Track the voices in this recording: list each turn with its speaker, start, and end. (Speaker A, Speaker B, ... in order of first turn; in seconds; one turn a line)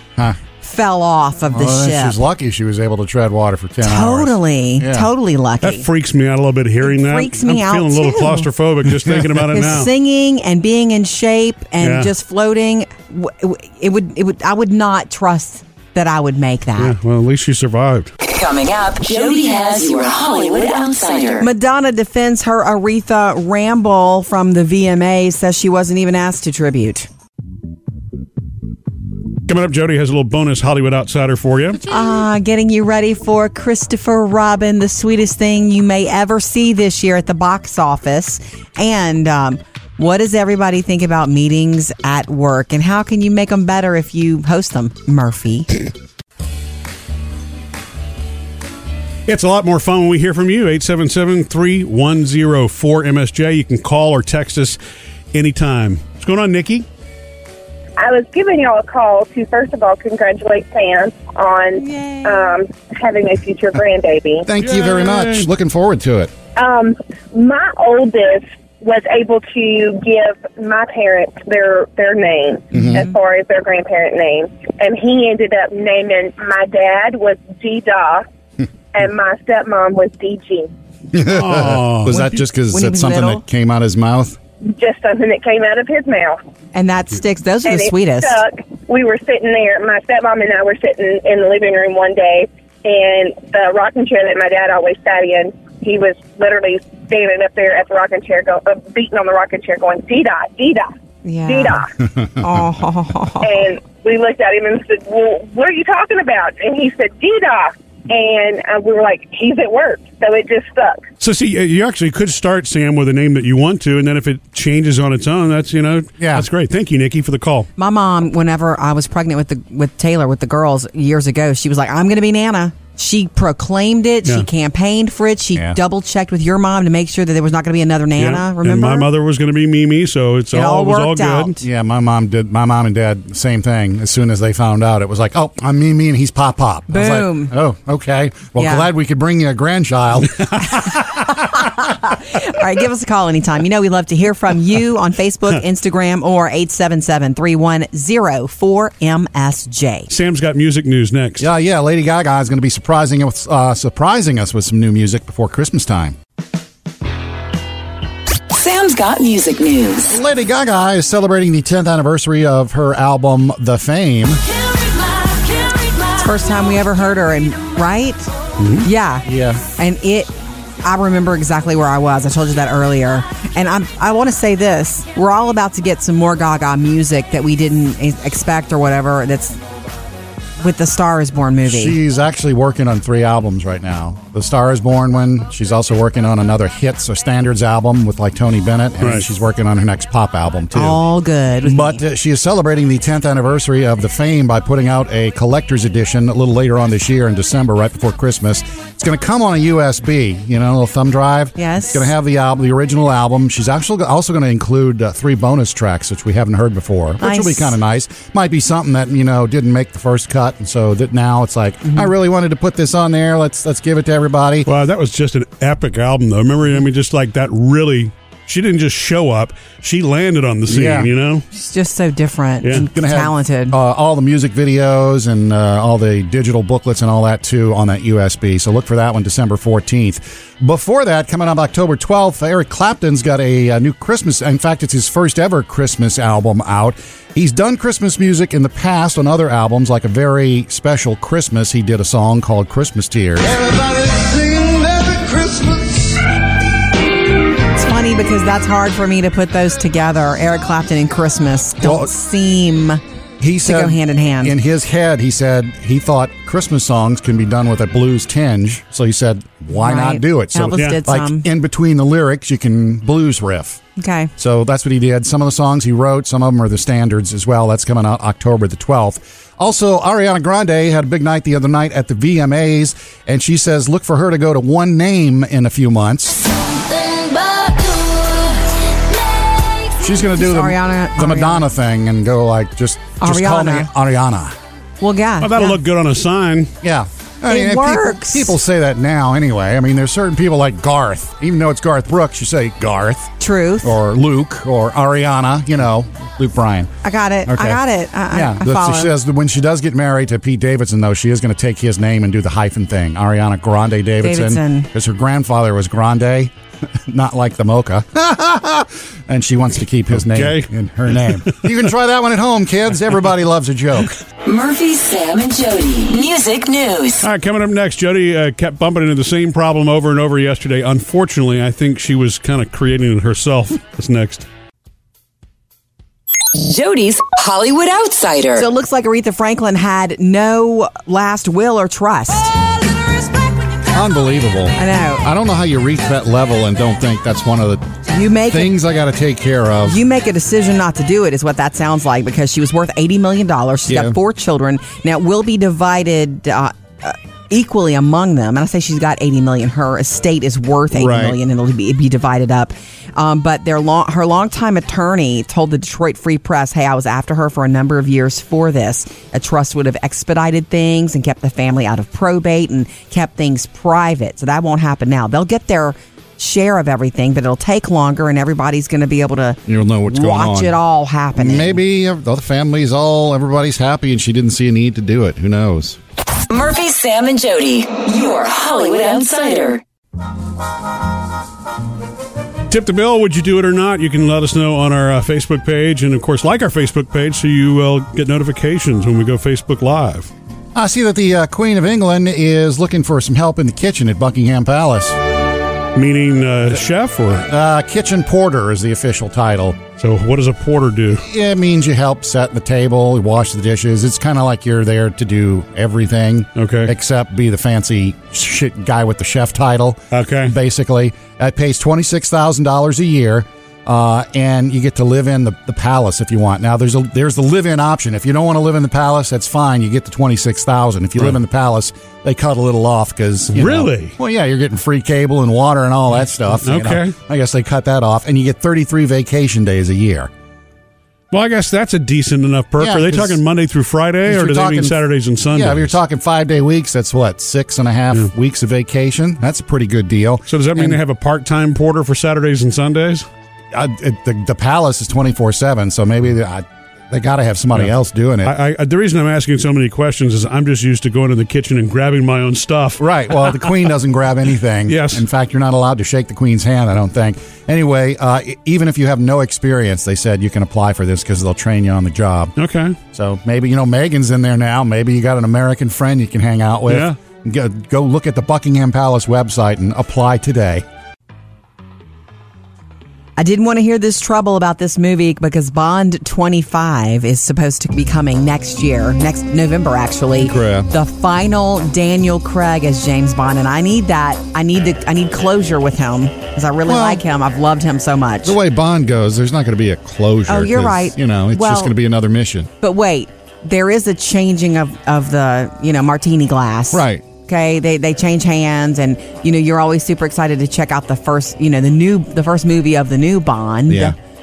Speaker A: 0.6-2.2
Speaker B: 1.5-5.1
Speaker A: 3.8-5.9
Speaker C: 5.6-9.9
Speaker A: 6.8-8.5
Speaker B: 9.1-9.3
Speaker A: 9.5-16.9
Speaker C: 11.8-12.1
Speaker C: 16.8-18.1
Speaker D: 18.2-21.5
Speaker A: 21.4-27.1
Speaker C: 29.5-31.8
Speaker A: 31.9-45.7
Speaker C: 49.3-54.8
Speaker C: 55.3-56.9
Speaker E: 58.0-64.5
Speaker A: 61.8-62.5
Speaker B: 64.5-66.3
Speaker C: 64.6-65.5
Speaker E: 66.6-78.2
Speaker B: 72.7-73.1
Speaker E: 78.9-80.7
Speaker B: 81.1-84.4
Speaker C: 81.2-82.3
Speaker A: 82.1-83.4
Speaker E: 84.7-86.4
Speaker A: 86.8-88.4
Speaker E: 87.7-100.9
Speaker A: 101.2-101.8
Speaker E: 101.5-101.9
Speaker A: 102.4-103.7
Speaker E: 103.4-111.0
Speaker C: 111.2-117.7
Speaker B: 116.2-116.5
Speaker A: 117.8-129.1
Speaker C: 128.2-131.6
Speaker A: 130.5-131.6
Speaker B: 131.6-141.1
Speaker A: 136.9-137.5
Speaker A: 138.6-138.9
Speaker A: 140.8-150.1
Speaker C: 150.1-151.5
Speaker B: 151.4-156.2
Speaker D: 158.5-160.1
Speaker B: 160.1-164.4
Speaker D: 165.2-166.0
Speaker A: 166.2-168.3
Speaker C: 168.6-168.9
Speaker A: 168.8-170.3
Speaker B: 169.2-169.6
Speaker A: 170.8-179.6
Speaker A: 180.6-182.0
Speaker B: 181.7-191.0
Speaker C: 189.0-189.3
Speaker A: 190.7-192.0
Speaker B: 191.6-214.7
Speaker A: 201.6-202.1
Speaker A: 207.2-207.8
Speaker A: 211.8-212.1
Speaker C: 214.7-221.4
Speaker B: 220.7-221.1
Speaker A: 221.5-223.8
Speaker C: 222.6-222.9
Speaker B: 222.9-243.6
Speaker F: 243.6-245.9
Speaker A: 247.8-253.0
Speaker B: 251.8-252.1
Speaker B: 253.4-263.8
Speaker A: 253.6-254.6
Speaker A: 259.7-261.5
Speaker C: 260.8-261.0
Speaker A: 264.0-264.3
Speaker B: 264.4-276.4
Speaker D: 276.9-278.5
Speaker B: 280.0-284.6
Speaker A: 280.4-281.7
Speaker A: 283.2-283.9
Speaker A: 285.0-285.8
Speaker C: 285.4-286.7
Speaker B: 286.8-296.9
Speaker A: 287.5-288.6
Speaker A: 293.4-293.9
Speaker A: 297.0-299.1
Speaker B: 297.5-306.5
Speaker A: 304.2-304.9
Speaker B: 307.1-314.1
Speaker C: 310.1-310.7
Speaker C: 311.3-311.6
Speaker D: 314.4-317.3
Speaker C: 317.2-324.5
Speaker D: 326.6-328.7
Speaker A: 328.6-332.6
Speaker B: 333.9-337.9
Speaker A: 334.8-335.2
Speaker A: 338.1-338.8
Speaker B: 338.5-340.0
Speaker A: 339.9-371.8
Speaker B: 343.9-344.2
Speaker B: 350.9-351.4
Speaker B: 369.7-370.8
Speaker B: 371.4-376.0
Speaker D: 376.5-379.8
Speaker C: 382.7-390.3
Speaker B: 390.8-395.2
Speaker C: 395.9-397.5
Speaker B: 397.5-399.8
Speaker C: 400.0-401.2
Speaker B: 401.2-430.3
Speaker C: 406.6-406.9
Speaker C: 410.1-410.5
Speaker C: 423.5-424.1
Speaker C: 426.6-427.1
Speaker C: 431.3-435.9
Speaker B: 432.8-433.4
Speaker B: 434.3-441.0
Speaker C: 440.5-443.3
Speaker B: 443.7-448.5
Speaker C: 448.4-453.7
Speaker B: 453.0-462.5
Speaker C: 454.9-455.2
Speaker C: 462.6-463.0
Speaker B: 463.1-470.9
Speaker C: 466.9-467.2
Speaker A: 473.4-488.6
Speaker B: 480.4-480.9
Speaker B: 486.9-487.2
Speaker B: 488.4-492.7
Speaker A: 490.5-491.9
Speaker A: 492.8-504.2
Speaker B: 496.9-497.2
Speaker B: 503.9-504.1